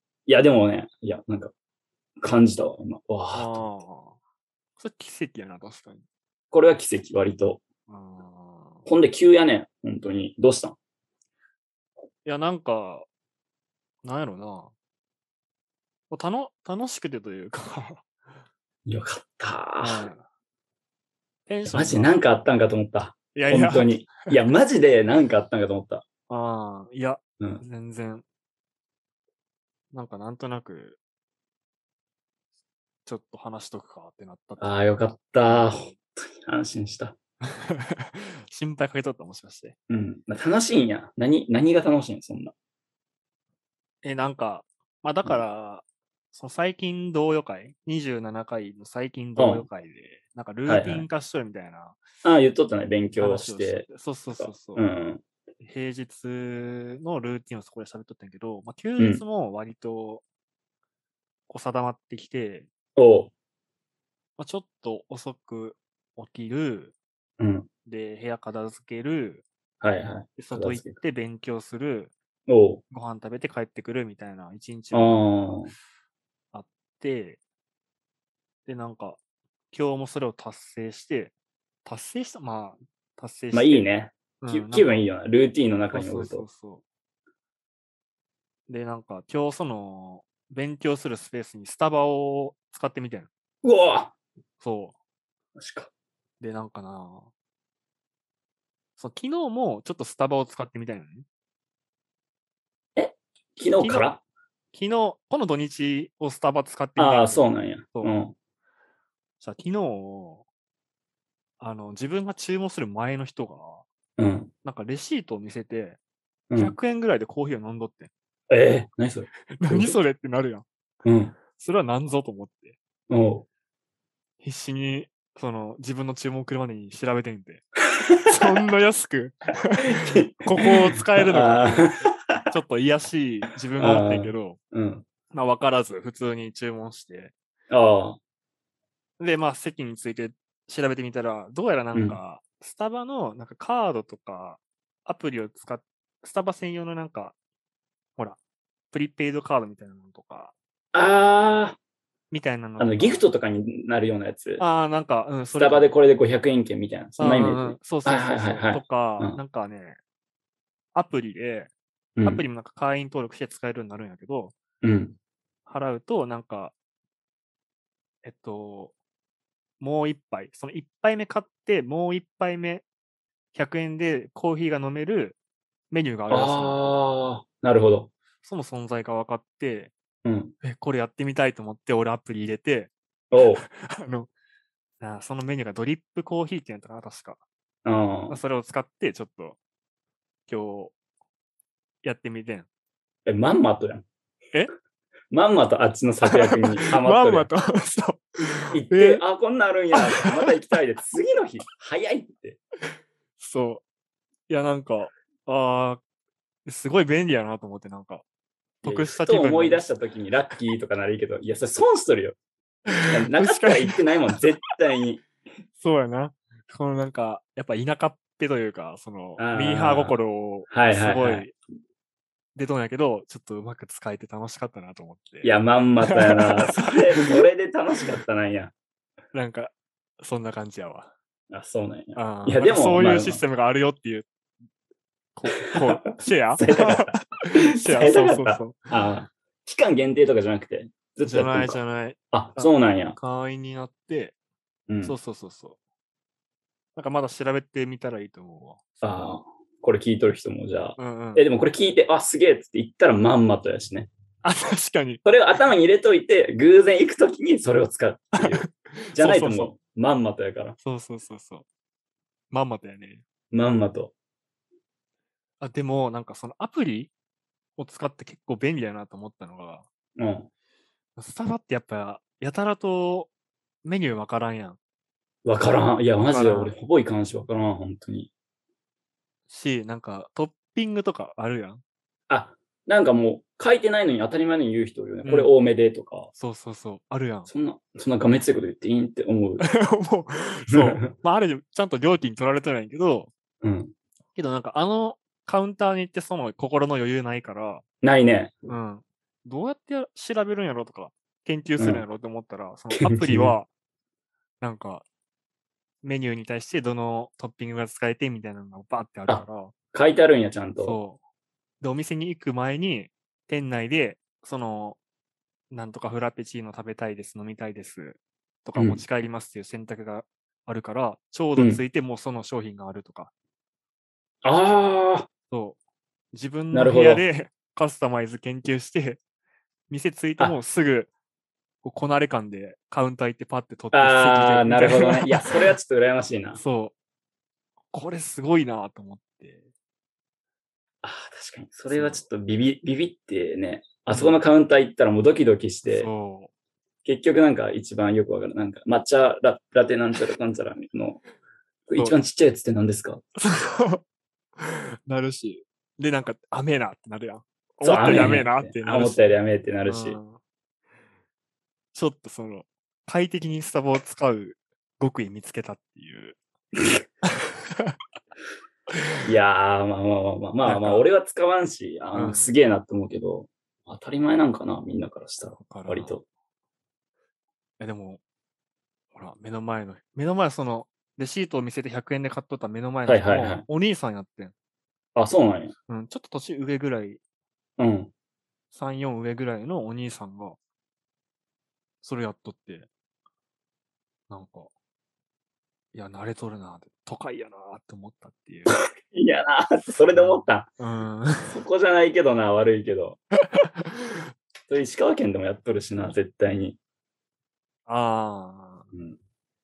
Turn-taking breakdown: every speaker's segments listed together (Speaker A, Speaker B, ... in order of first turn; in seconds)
Speaker A: 0.3-1.5, 2.2-3.6, 6.5-7.6, 8.8-10.8, 18.9-20.1, 21.6-26.0, 34.6-37.1, 39.9-42.5, 49.4-49.7, 50.6-51.1, 52.2-55.2, 59.0-59.2, 63.0-63.3, 67.4-67.7, 69.8-71.0, 72.5-72.8, 74.9-75.7, 83.5-86.4, 93.6-94.1, 95.6-95.9, 103.0-104.2, 107.0-108.3, 114.2-114.5, 118.5-120.0, 121.0-121.4, 123.1-123.5, 128.0-128.3, 129.9-132.5, 133.8-135.1, 137.7-138.2, 141.9-142.2, 150.9-151.8, 152.8-154.6, 155.5-159.4, 162.2-162.4, 164.8-165.2, 176.3-178.1, 180.2-180.5, 183.3-183.6, 187.8-188.4, 193.2-194.0, 195.3-197.5, 198.7-202.6, 208.8-212.4, 213.1-215.2, 219.4-220.2, 220.7-221.4, 225.4-228.7, 231.5-233.4, 235.6-241.8, 242.3-243.2, 244.9-245.2, 249.0-254.1, 255.2-260.8, 263.5-264.1, 270.2-270.5, 275.4-278.3, 282.3-286.3, 287.5-289.6, 290.7-291.1, 293.6-293.9, 298.0-298.5, 301.8-302.0, 302.9-303.6, 309.3-311.0, 318.7-319.0, 321.6-321.8, 324.4-325.3, 326.7-327.2, 333.9-336.6, 341.0-346.1, 347.0-351.2, 351.9-353.2, 357.8-360.2, 369.2-376.2, 383.0-383.6, 385.1-385.7, 387.8-388.1, 398.7-400.7, 401.4-403.2, 404.7-406.8
Speaker B: 3.3-4.2, 4.8-6.0, 7.9-8.9, 12.2-13.1, 14.0-14.7, 16.1-18.1, 19.8-20.2, 21.5-22.2, 23.3-24.4, 26.3-28.2, 29.9-31.0, 33.0-34.8, 35.5-35.9, 37.5-39.7, 44.0-52.0, 53.2-54.9, 55.6-60.2, 61.5-62.7, 64.4-66.9, 67.8-69.4, 70.4-72.1, 72.9-75.2, 76.5-77.4, 78.7-79.2, 79.7-81.3, 81.8-83.8, 84.4-85.1, 85.9-86.8, 88.7-93.3, 94.6-95.0, 96.4-97.3, 99.0-101.2, 103.8-104.1, 104.7-108.2, 109.4-110.4, 111.6-113.8, 114.6-116.0, 116.5-118.1, 119.5-120.7, 121.5-122.8, 124.4-127.7, 128.2-134.6, 135.3-137.3, 139.2-147.3, 148.9-150.5, 152.3-153.2, 154.6-155.9, 157.2-160.0, 160.9-161.7, 162.2-164.5, 165.7-166.7, 168.2-168.9, 169.8-172.8, 173.5-175.4, 175.9-176.9, 178.4-179.9, 180.6-182.9, 183.6-184.3, 185.0-187.4, 188.3-189.6, 190.5-190.9, 192.0-192.7, 196.2-199.2, 199.9-200.5, 203.4-203.8, 204.5-206.0, 206.6-208.2, 208.8-209.8, 212.9-214.0, 215.8-221.5, 222.5-225.5, 226.0-227.4, 229.3-231.1, 232.1-234.3, 235.3-238.9, 241.2-244.3, 245.0-245.8, 246.9-248.8, 251.0-251.5, 254.4-255.2, 258.4-259.7, 260.8-261.6, 262.5-263.2, 265.6-267.1, 267.8-269.9, 271.2-273.3, 273.8-274.8, 276.2-276.7, 279.5-281.8, 285.2-285.5, 286.3-287.5, 289.6-293.3, 294.3-297.8, 298.7-303.7, 304.6-305.0, 306.0-309.7, 310.8-311.2, 311.8-315.0, 315.7-323.3, 325.5-325.8, 326.3-329.2, 329.9-331.1, 331.8-335.5, 336.5-336.9, 337.9-339.6, 341.9-342.2, 344.1-344.4, 345.8-346.5, 353.4-354.0, 354.6-360.4, 361.9-366.4, 367.3-367.9, 370.6-371.1, 372.1-372.5, 375.6-376.2, 377.8-378.2, 379.1-384.5, 385.9-387.2, 388.7-390.6, 392.0-392.9, 394.3-394.7, 395.9-398.7, 400.1-401.6, 407.9-408.9